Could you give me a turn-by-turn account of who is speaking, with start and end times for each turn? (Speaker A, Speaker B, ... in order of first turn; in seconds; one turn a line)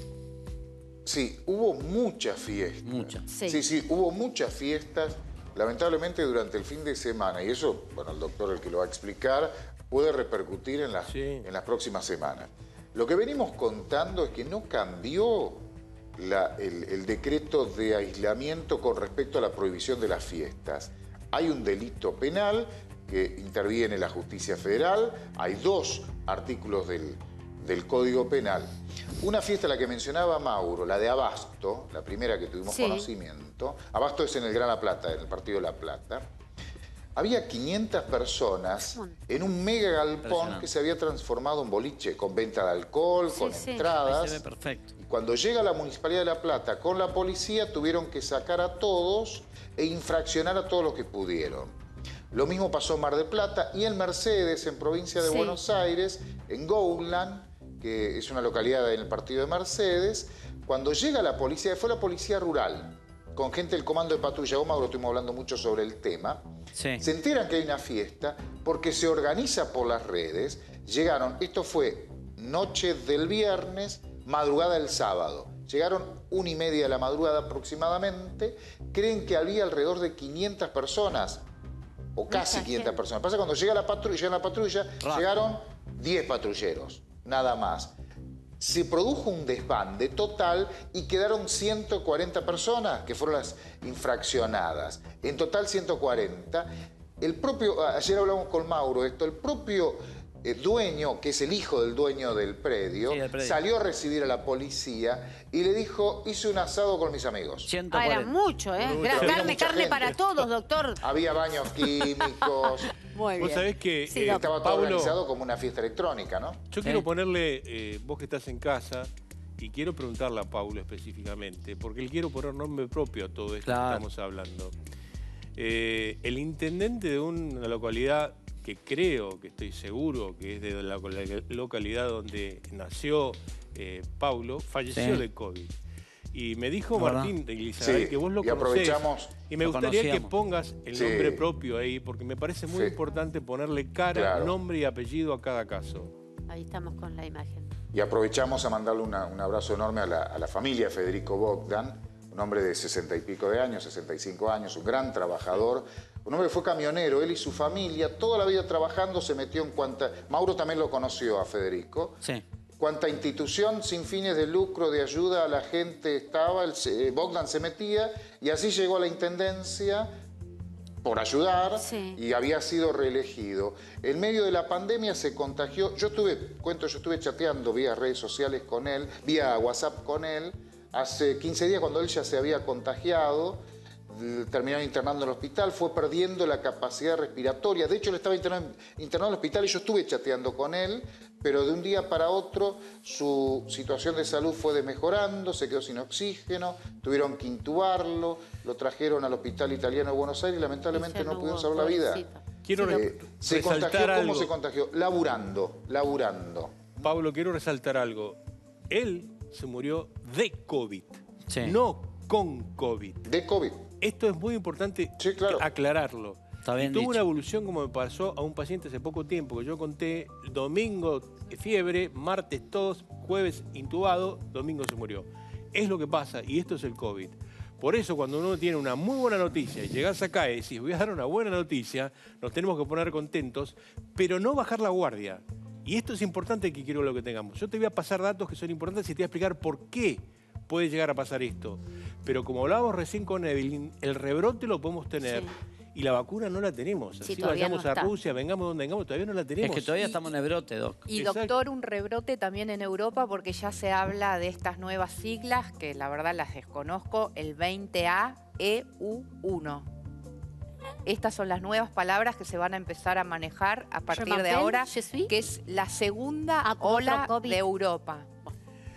Speaker A: 1.0-36.2
Speaker B: 2.8-3.2
Speaker C: 3.3-3.6
Speaker D: 11.1-11.4
Speaker C: 32.7-33.1
Speaker A: 37.1-44.4
Speaker C: 38.8-39.2
Speaker B: 40.2-40.7
Speaker C: 43.3-43.9
Speaker B: 44.0-44.9
Speaker A: 45.0-51.7
Speaker A: 52.3-66.4
Speaker C: 55.2-55.6
Speaker B: 66.7-67.0
Speaker A: 67.0-81.4
Speaker A: 82.2-87.9
Speaker A: 88.6-107.7
Speaker B: 103.1-103.6
Speaker B: 107.7-108.3
Speaker C: 107.9-111.0
Speaker D: 108.8-110.0
Speaker A: 109.0-110.2
Speaker A: 111.0-112.9
Speaker C: 112.2-114.5
Speaker D: 113.4-115.2
Speaker A: 114.2-116.6
Speaker D: 116.7-124.7
Speaker B: 123.6-124.0
Speaker D: 125.6-135.7
Speaker B: 134.9-135.2
Speaker D: 136.3-146.1
Speaker B: 136.9-137.3
Speaker A: 137.8-139.3
Speaker B: 139.6-140.3
Speaker A: 140.9-141.4
Speaker A: 142.7-142.9
Speaker A: 144.1-144.5
Speaker C: 146.5-147.7
Speaker A: 147.9-162.2
Speaker A: 162.8-170.1
Speaker A: 171.0-202.3
Speaker C: 171.8-172.2
Speaker C: 200.9-203.1
Speaker D: 202.7-204.5
Speaker A: 202.8-206.8
Speaker D: 207.0-208.4
Speaker D: 208.9-213.2
Speaker B: 211.5-211.8
Speaker A: 213.2-213.9
Speaker D: 214.0-250.0
Speaker A: 215.2-215.6
Speaker B: 216.6-217.2
Speaker C: 245.2-245.5
Speaker C: 247.2-248.1
Speaker B: 249.6-251.1
Speaker E: 251.1-259.9
Speaker D: 251.1-251.5
Speaker E: 261.0-268.3
Speaker C: 264.1-265.3
Speaker C: 266.6-267.6